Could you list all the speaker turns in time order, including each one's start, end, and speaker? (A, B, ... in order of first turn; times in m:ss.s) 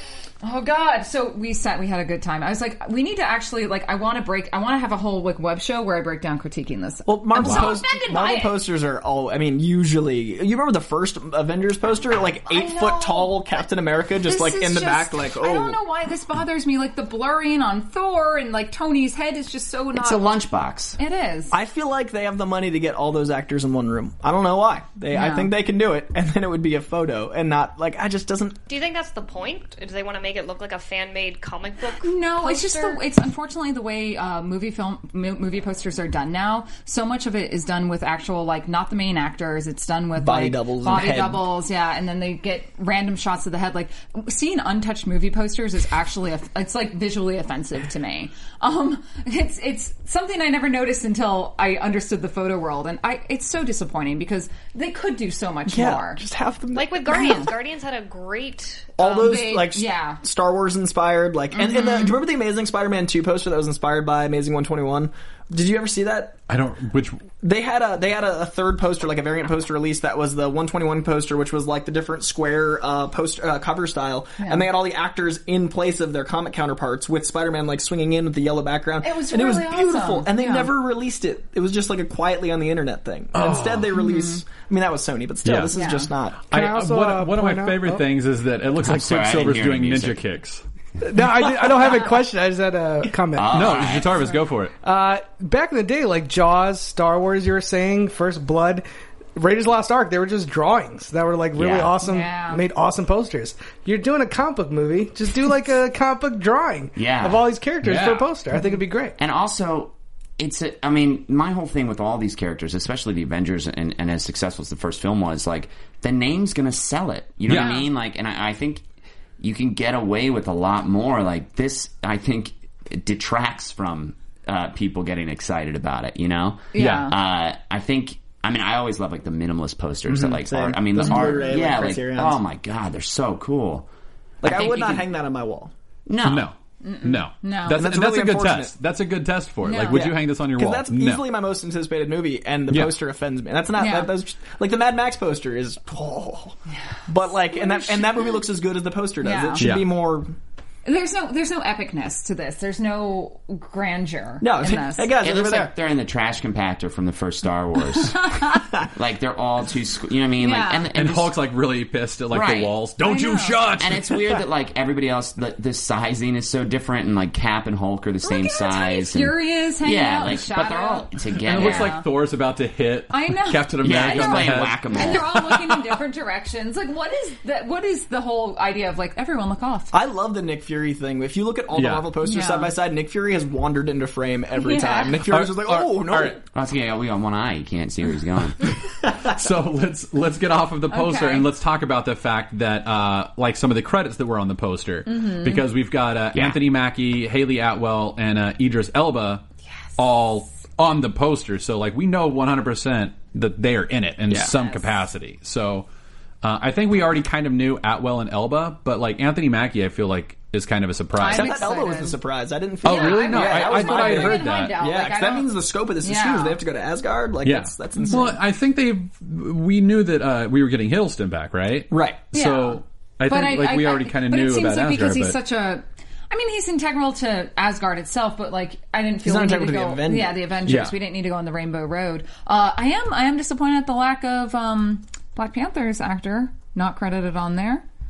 0:00.4-0:08.6 A
0:07.1-0:15.8 B
0:07.4-0:07.7 C
0:12.5-0:13.4 A
0:14.2-0:20.4 A
0:20.0-0:21.0 D
0:21.0-0:21.5 A
0:21.5-0:28.6 B
0:25.1-0:25.5 A
0:28.7-0:33.0 E
0:32.0-0:56.2 A
0:40.2-0:41.5 B
0:55.7-0:57.5 B
0:56.7-0:58.9 E
0:57.0-0:57.5 A
0:59.0-1:06.4 B
0:59.0-1:00.2 A
1:01.5-1:02.2 A
1:06.5-1:07.2 C
1:07.4-1:26.4 B
1:14.4-1:14.7 A
1:19.0-1:20.7 A
1:23.3-1:23.9 C
1:23.9-1:24.4 A
1:25.4-1:25.7 C
1:25.7-1:26.1 A
1:26.5-1:30.6 C
1:26.5-1:28.0 F
1:28.8-1:30.2 D
1:31.0-1:33.7 F
1:33.3-1:34.2 D
1:33.5-1:34.7 C
1:34.8-1:38.8 F
1:39.4-1:49.2 F
1:41.6-1:42.0 D
1:42.0-1:42.6 A
1:47.0-1:47.5 D
1:47.8-1:48.4 C
1:49.2-1:58.8 D
1:57.5-1:57.8 C
1:57.5-1:57.9 A
1:59.4-2:13.9 D
2:06.7-2:07.2 A
2:06.8-2:07.1 C
2:10.1-2:12.4 B
2:11.0-2:11.6 A
2:14.4-2:15.1 D
2:14.4-2:15.7 B
2:16.1-2:16.5 D
2:16.2-2:21.3 C
2:16.8-2:17.9 A
2:17.7-2:18.7 B
2:19.6-2:20.1 A
2:19.9-2:30.3 B
2:23.8-2:24.1 A
2:27.5-2:28.2 A
2:29.2-2:29.7 A
2:29.6-2:29.9 C
2:30.8-2:35.2 A
2:34.4-2:35.7 B
2:35.1-2:41.3 D
2:38.0-2:38.6 A
2:40.4-2:40.9 A
2:40.9-2:44.4 C
2:42.3-2:42.7 D
2:43.0-2:43.6 A
2:43.8-2:51.9 D
2:48.2-2:52.1 A
2:51.4-2:56.0 C
2:53.1-2:59.9 A
2:53.8-2:55.3 D
2:59.9-3:06.4 B
3:01.7-3:02.1 C
3:02.2-3:02.7 A
3:04.6-3:05.1 A
3:05.2-3:06.4 C
3:06.5-3:08.6 D
3:09.3-3:19.4 C
3:10.9-3:11.5 A
3:15.1-3:15.6 A
3:20.0-3:25.9 C
3:24.5-3:24.9 A
3:26.4-3:31.6 C
3:31.2-3:32.2 A
3:31.3-3:38.4 B
3:32.8-3:34.8 C
3:32.8-3:36.6 A
3:37.4-3:45.4 C
3:41.9-3:42.2 B
3:42.3-3:57.8 A
3:49.2-3:50.5 B
3:50.7-3:51.0 C